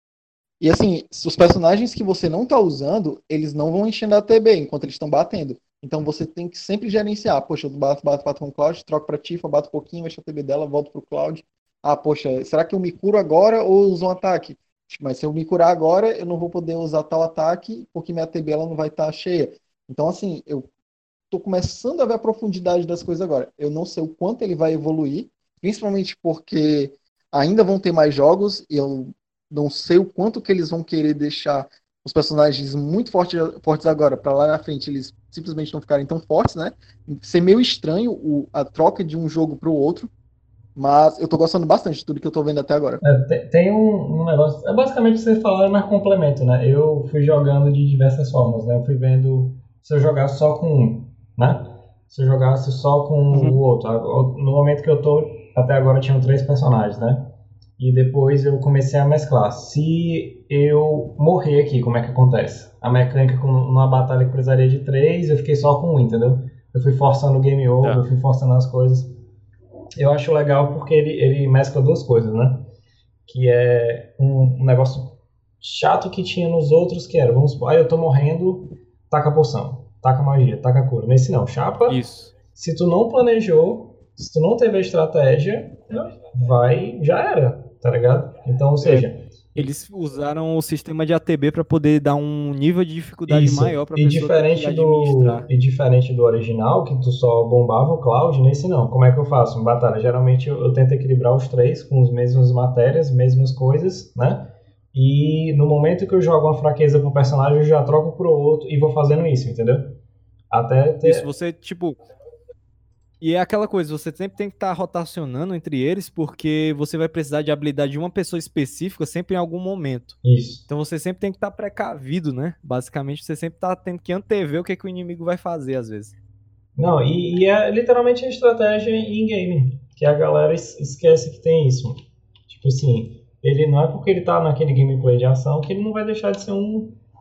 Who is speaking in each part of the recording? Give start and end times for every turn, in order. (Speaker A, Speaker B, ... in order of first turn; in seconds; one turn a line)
Speaker A: 0.6-20.7
Speaker A: 21.3-40.1
Speaker A: 40.8-43.0
Speaker B: 43.0-69.1
Speaker A: 53.3-53.6
Speaker C: 67.8-68.1
Speaker B: 70.0-72.7
Speaker B: 73.3-82.0
Speaker C: 81.9-82.3
Speaker B: 82.5-89.7
Speaker C: 88.8-95.5
Speaker B: 93.3-110.0
Speaker B: 110.5-111.2
Speaker C: 111.0-112.0
Speaker C: 113.2-120.2
Speaker B: 120.2-120.7
Speaker C: 120.7-126.1
Speaker B: 126.8-137.0